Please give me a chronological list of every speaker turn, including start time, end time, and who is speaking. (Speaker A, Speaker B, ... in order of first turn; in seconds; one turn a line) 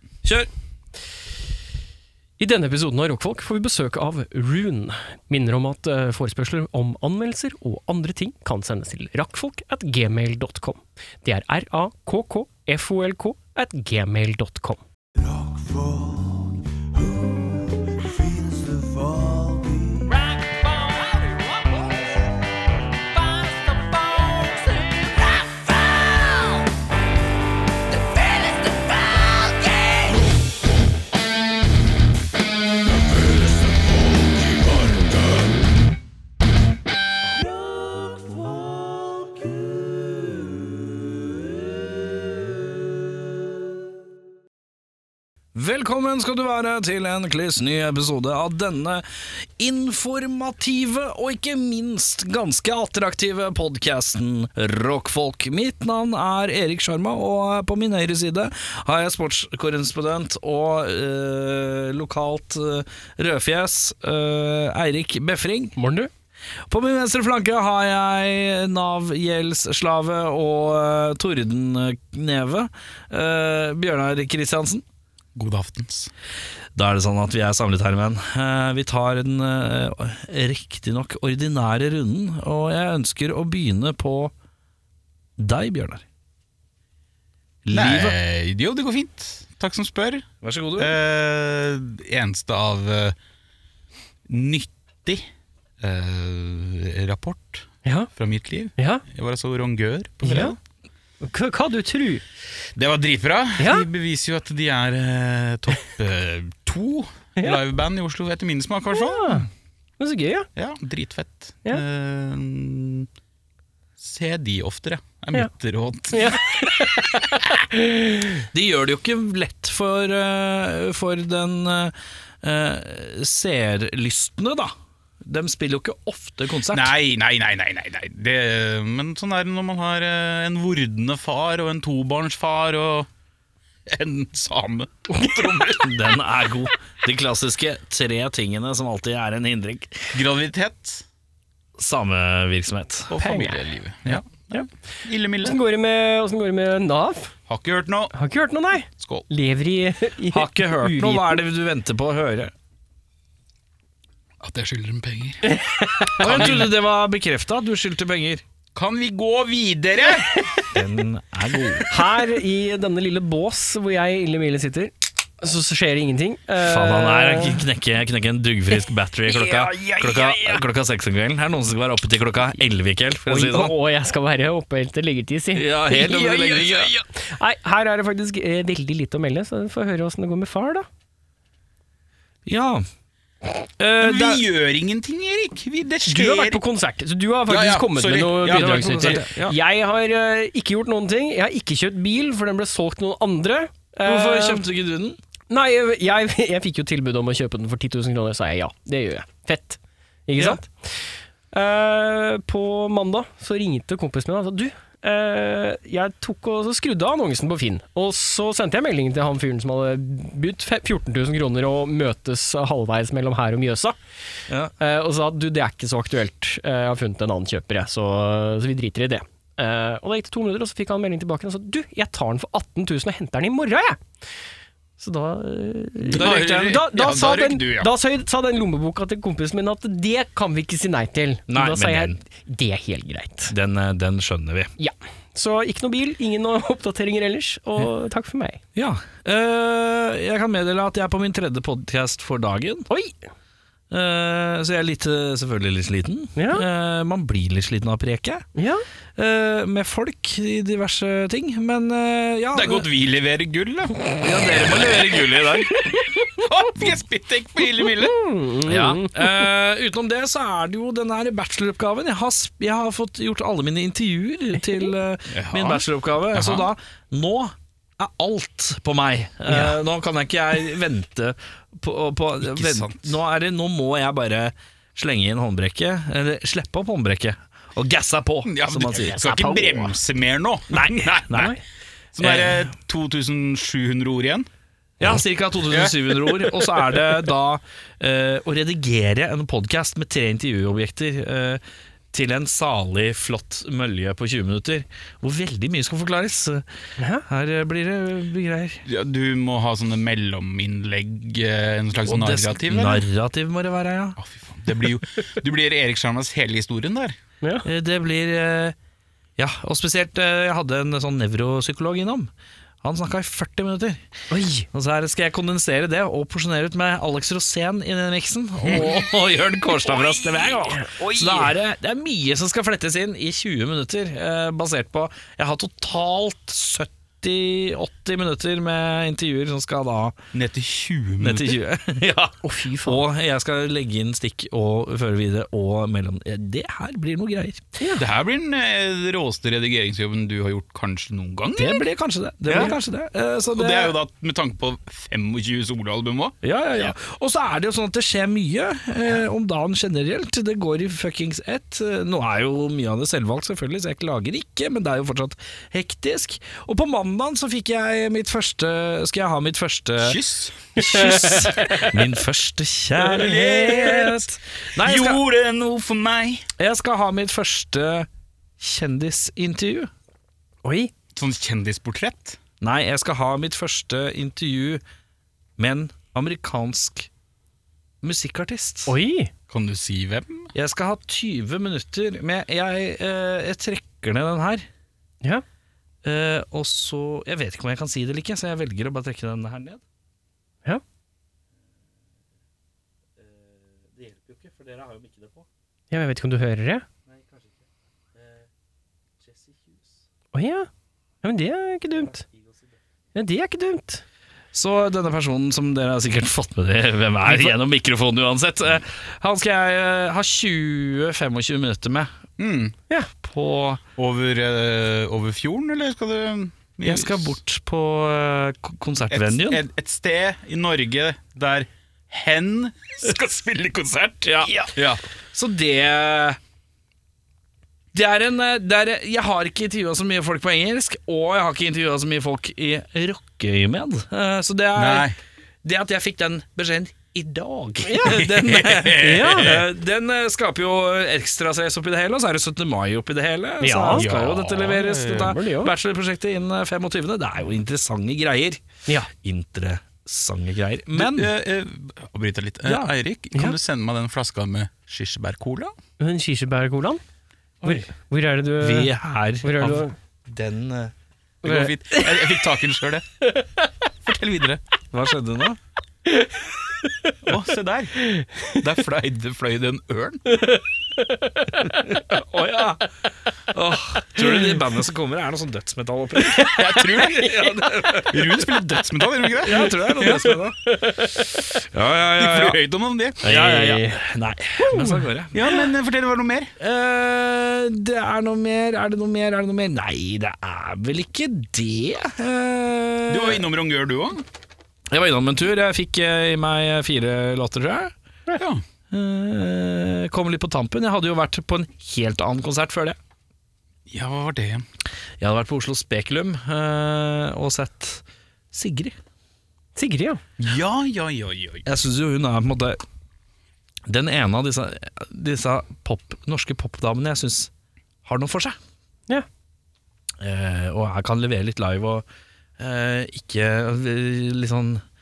Speaker A: 2.4-14.8
Speaker A: 20.2-21.8
Speaker A: 23.2-25.7
Speaker B: 45.5-65.8
Speaker A: 65.8-66.1
Speaker B: 66.7-74.8
Speaker C: 75.3-76.1
Speaker B: 76.8-84.3
Speaker B: 85.4-86.0
Speaker B: 87.7-88.2
Speaker C: 87.7-90.3
Speaker B: 90.4-91.0
Speaker C: 90.8-93.2
Speaker C: 94.3-95.2
Speaker C: 95.8-100.5
Speaker A: 97.8-98.1
Speaker A: 98.8-99.0
Speaker A: 100.2-100.5
Speaker B: 100.2-100.5
Speaker A: 101.2-102.2
Speaker C: 102.7-109.5
Speaker A: 103.6-103.8
Speaker A: 108.9-109.5
Speaker A: 110.0-110.5
Speaker C: 110.5-113.1
Speaker C: 114.0-116.4
Speaker A: 116.1-118.4
Speaker B: 118.5-124.7
Speaker B: 125.2-126.9
Speaker C: 126.7-133.1
Speaker C: 133.9-136.0
Speaker B: 135.8-140.1
Speaker C: 140.1-141.0
Speaker B: 141.8-143.2
Speaker C: 143.1-145.6
Speaker A: 143.2-143.7
Speaker A: 145.4-147.3
Speaker C: 147.5-148.1
Speaker A: 148.1-151.4
Speaker C: 149.0-149.3
Speaker B: 150.3-152.5
Speaker C: 154.4-155.6
Speaker A: 155.5-156.2
Speaker C: 156.2-156.7
Speaker B: 156.2-158.4
Speaker C: 158.7-160.7
Speaker B: 160.7-161.9
Speaker A: 161.9-167.6
Speaker B: 166.6-173.7
Speaker A: 169.3-170.6
Speaker A: 173.3-180.9
Speaker B: 175.5-176.9
Speaker B: 182.5-182.8
Speaker B: 183.8-184.4
Speaker C: 184.0-186.6
Speaker A: 186.1-194.7
Speaker C: 187.5-189.2
Speaker B: 188.4-189.6
Speaker B: 194.0-195.2
Speaker A: 195.5-214.0
Speaker A: 214.8-224.0
Speaker A: 225.0-233.5
Speaker B: 226.1-226.8
Speaker C: 226.2-227.9
Speaker B: 231.5-232.2
Speaker B: 233.5-234.7
Speaker A: 234.8-238.6
Speaker B: 238.7-242.9
Speaker A: 242.9-243.2
Speaker B: 243.9-248.5
Speaker A: 246.3-246.6
Speaker A: 248.6-248.8
Speaker B: 249.2-252.8
Speaker C: 252.5-254.9
Speaker B: 254.2-255.7
Speaker C: 256.1-258.2
Speaker A: 257.8-259.4
Speaker B: 258.6-279.6
Speaker C: 265.3-266.7
Speaker C: 272.4-273.2
Speaker C: 278.4-281.5
Speaker A: 279.1-279.9
Speaker A: 281.3-281.6
Speaker C: 282.1-284.5
Speaker B: 282.2-282.7
Speaker B: 285.0-291.6
Speaker C: 285.7-285.9
Speaker B: 292.1-296.6
Speaker A: 297.0-297.2
Speaker B: 297.2-298.8
Speaker C: 298.9-303.1
Speaker B: 302.1-304.2
Speaker C: 304.2-307.1
Speaker B: 307.6-308.8
Speaker B: 309.4-312.3
Speaker B: 312.8-314.0
Speaker A: 314.3-314.7
Speaker B: 314.7-330.1
Speaker A: 319.6-321.5
Speaker C: 330.3-331.6
Speaker B: 331.2-337.7
Speaker A: 332.4-333.0
Speaker C: 338.0-341.9
Speaker B: 341.6-343.9
Speaker A: 342.5-342.7
Speaker C: 343.5-346.4
Speaker B: 346.4-360.2
Speaker C: 360.0-360.6
Speaker B: 360.8-365.2
Speaker A: 360.8-361.9
Speaker C: 363.0-364.2
Speaker C: 364.8-366.4
Speaker B: 366.6-368.1
Speaker B: 368.6-369.9
Speaker A: 370.6-370.9
Speaker C: 371.1-372.4
Speaker B: 372.6-374.8
Speaker B: 375.6-377.1
Speaker B: 378.0-378.9
Speaker A: 378.9-379.3
Speaker C: 379.5-380.5
Speaker B: 380.5-384.7
Speaker B: 386.0-389.8
Speaker B: 393.2-395.5
Speaker A: 395.9-396.9
Speaker B: 397.1-397.6
Speaker B: 398.1-398.5
Speaker B: 399.2-400.0
Speaker A: 400.3-400.7
Speaker A: 401.2-402.2
Speaker B: 401.9-402.8
Speaker A: 403.1-404.0
Speaker B: 404.5-412.1
Speaker C: 412.4-412.7
Speaker B: 413.2-413.8
Speaker C: 414.0-417.4
Speaker B: 416.8-419.6
Speaker C: 419.1-425.0
Speaker B: 424.2-424.7
Speaker B: 425.3-426.4
Speaker B: 427.9-435.1
Speaker C: 434.7-435.1
Speaker B: 435.6-451.3
Speaker A: 437.9-438.3
Speaker C: 438.0-439.6
Speaker A: 439.0-439.6
Speaker A: 443.6-444.0
Speaker C: 443.9-445.3
Speaker A: 445.1-445.7
Speaker C: 450.9-455.7
Speaker B: 452.6-452.9
Speaker A: 456.0-457.0
Speaker A: 457.6-459.9
Speaker B: 458.6-460.9
Speaker A: 461.4-462.4
Speaker C: 461.4-463.1
Speaker C: 464.0-464.6
Speaker B: 464.9-465.6
Speaker A: 466.1-466.4
Speaker C: 467.2-467.9
Speaker A: 468.0-468.5
Speaker C: 468.5-470.2
Speaker A: 470.3-471.8
Speaker B: 471.9-472.9
Speaker B: 473.5-478.3
Speaker A: 476.2-477.0
Speaker C: 476.5-479.8
Speaker B: 479.4-480.6
Speaker A: 480.0-481.4
Speaker B: 481.7-482.6
Speaker C: 482.2-483.2
Speaker B: 483.2-485.5
Speaker A: 483.2-484.0
Speaker A: 484.6-485.0
Speaker C: 485.3-486.5
Speaker B: 486.6-493.4
Speaker C: 493.1-494.2
Speaker B: 494.9-497.9
Speaker C: 498.4-498.6
Speaker B: 498.9-503.0
Speaker C: 503.9-504.6
Speaker B: 505.2-508.9
Speaker A: 509.8-510.2
Speaker C: 510.4-511.7
Speaker B: 511.7-512.8
Speaker B: 513.9-517.5
Speaker B: 518.0-518.5
Speaker B: 520.2-522.0
Speaker B: 522.6-524.8